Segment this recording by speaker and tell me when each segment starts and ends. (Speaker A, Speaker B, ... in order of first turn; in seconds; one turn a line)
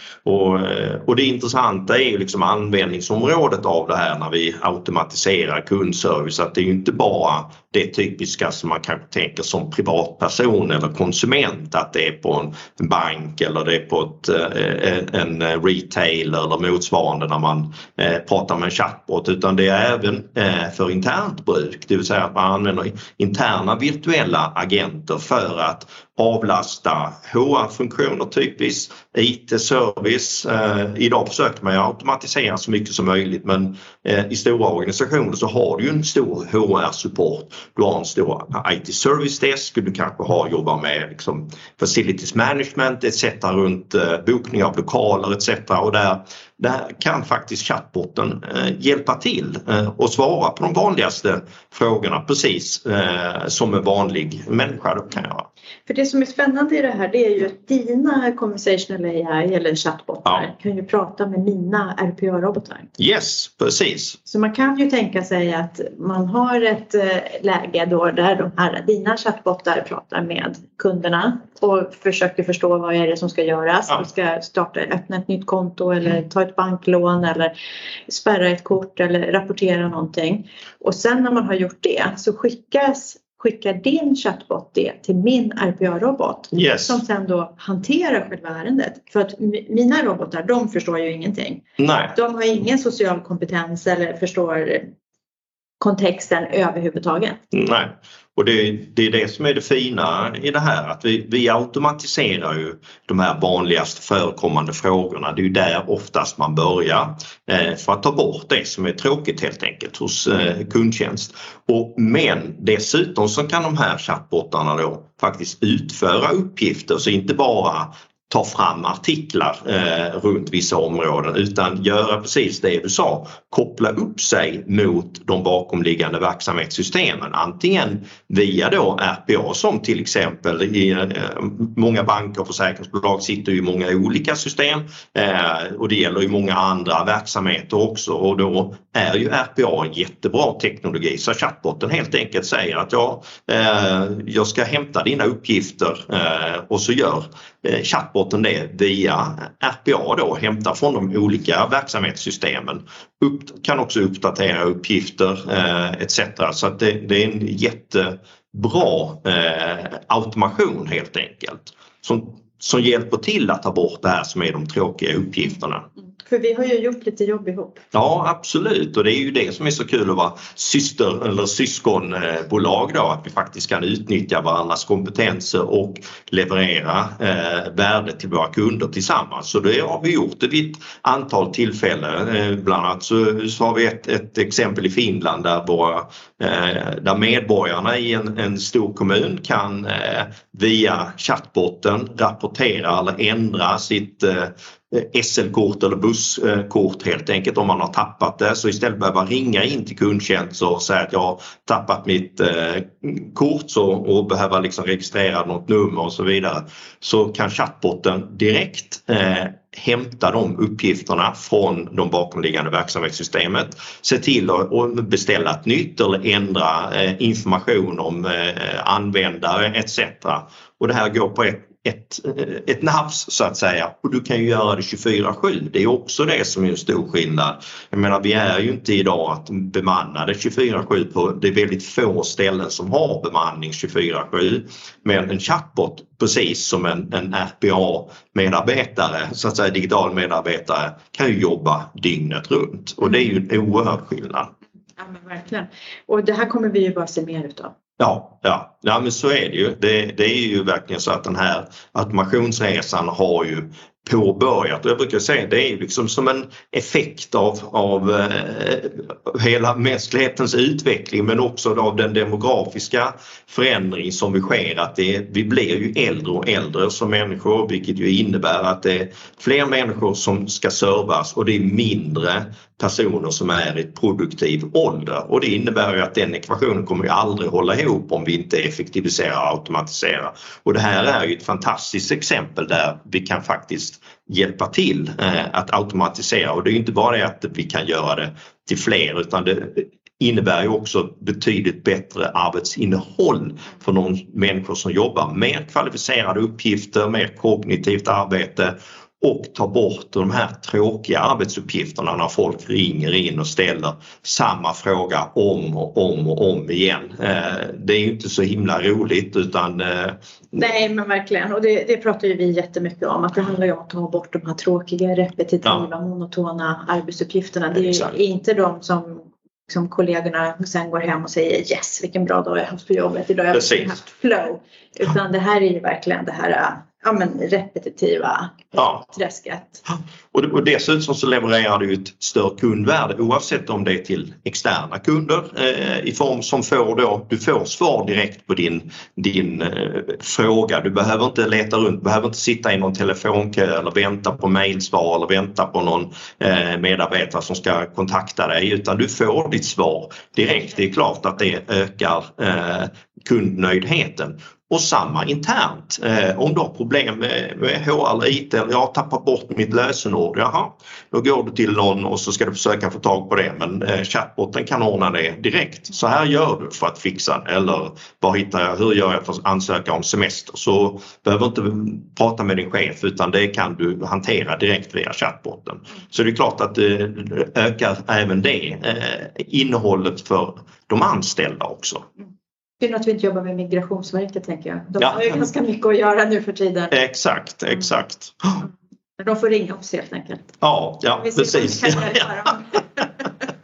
Speaker A: 0.2-55.5
Speaker B: 55.9-62.9
Speaker A: 63.0-64.2
Speaker B: 64.2-77.5
Speaker B: 78.1-91.6
Speaker A: 86.5-87.0
Speaker A: 91.8-92.2
Speaker B: 92.1-94.9
Speaker B: 95.8-97.4
Speaker A: 97.5-165.8
Speaker B: 166.2-167.8
Speaker A: 167.9-244.5
Speaker B: 245.0-247.7
Speaker A: 248.0-310.6
Speaker B: 310.5-329.8
Speaker A: 317.8-318.1
Speaker A: 323.5-324.0
Speaker A: 328.7-329.1
Speaker A: 330.3-382.0
Speaker B: 382.8-386.9
Speaker A: 386.9-388.7
Speaker B: 389.2-393.3
Speaker A: 390.6-392.5